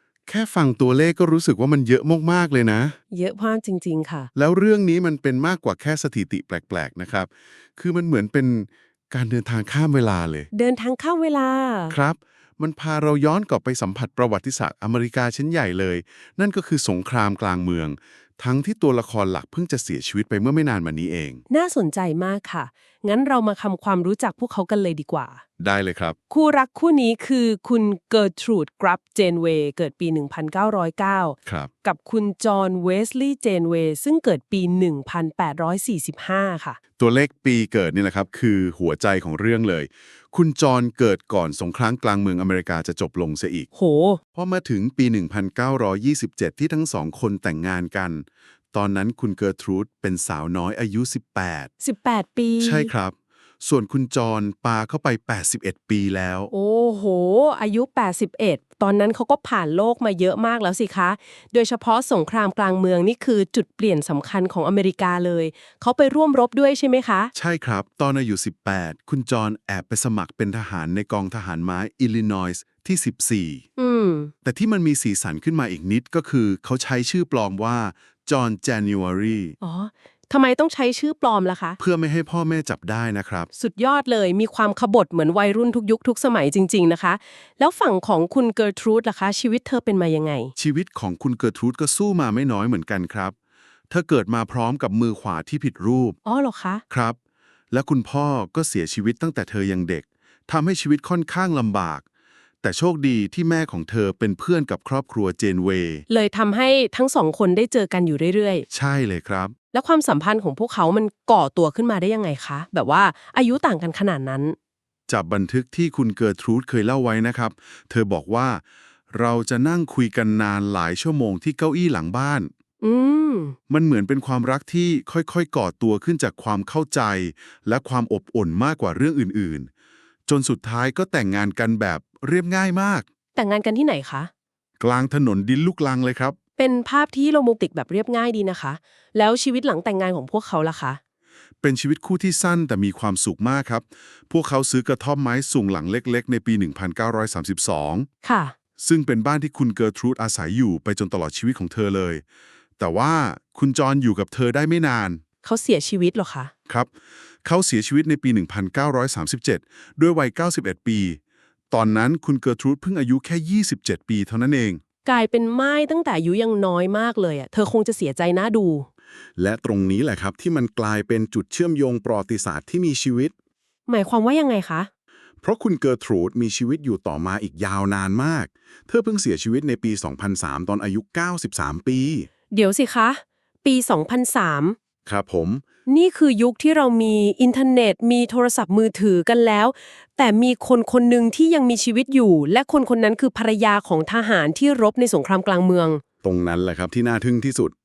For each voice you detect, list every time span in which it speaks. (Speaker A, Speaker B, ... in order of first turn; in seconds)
Speaker A: 0.3-3.0, 4.3-10.5, 11.9-21.4, 25.6-26.2, 31.4-31.7, 37.0-43.7, 44.3-51.7, 52.6-56.5, 67.3-73.6, 74.4-79.5, 81.8-83.5, 90.5-93.3, 93.9-96.2, 96.9-97.2, 97.7-102.0, 102.6-106.0, 108.7-109.5, 115.1-122.5, 123.7-129.7, 130.3-133.0, 134.8-136.3, 141.6-148.1, 148.8-152.2, 152.8-155.2, 157.4-161.2, 161.7-164.8, 169.4-173.3, 175.4-182.3, 185.1-185.6, 196.2-197.7
Speaker B: 3.1-4.3, 10.5-12.0, 21.5-25.4, 26.3-36.8, 43.7-44.2, 51.8-52.9, 56.5-67.3, 73.8-74.3, 79.6-81.8, 83.5-90.5, 96.2-96.8, 106.1-108.7, 109.7-114.5, 122.8-123.5, 133.3-134.3, 136.6-141.0, 148.2-148.5, 155.4-156.5, 165.0-168.8, 173.9-174.9, 182.5-184.8, 185.9-196.0